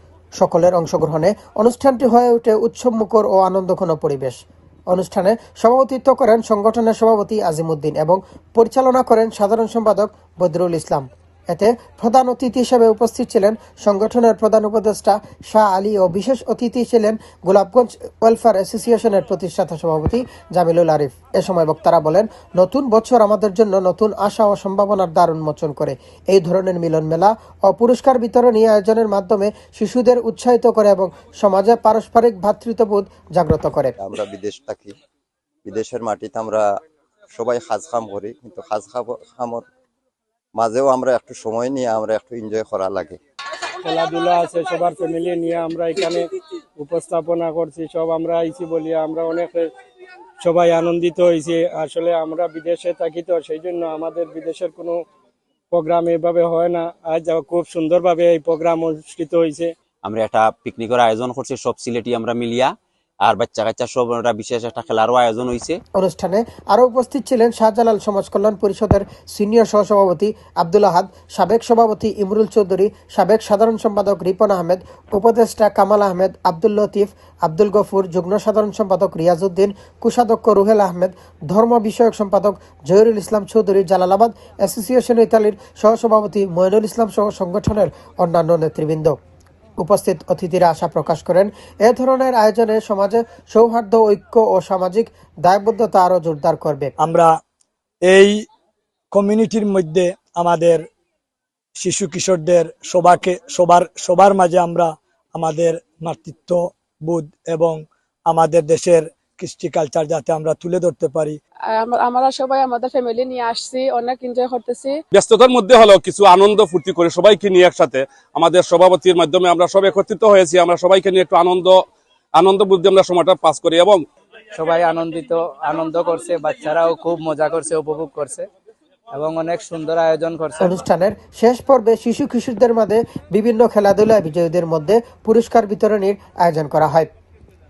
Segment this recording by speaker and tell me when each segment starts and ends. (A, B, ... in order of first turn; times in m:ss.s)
0:00.4-0:04.4 A
0:04.9-0:34.0 A
0:34.0-0:34.9 B
0:35.7-0:36.6 B
0:37.3-0:39.6 B
0:40.6-0:43.2 B
0:43.8-0:49.7 C
0:50.4-0:55.0 C
0:55.7-0:59.7 C
1:00.0-1:05.8 D
1:06.0-1:29.2 A
1:29.8-1:36.9 A
1:37.0-1:37.3 E
1:38.0-1:38.4 E
1:39.1-1:40.9 E
1:41.8-1:51.4 E
1:51.8-1:55.0 F
1:55.1-2:01.8 G
2:02.4-2:04.0 G
2:04.6-2:08.4 H
2:09.2-2:10.8 H
2:10.6-2:17.1 A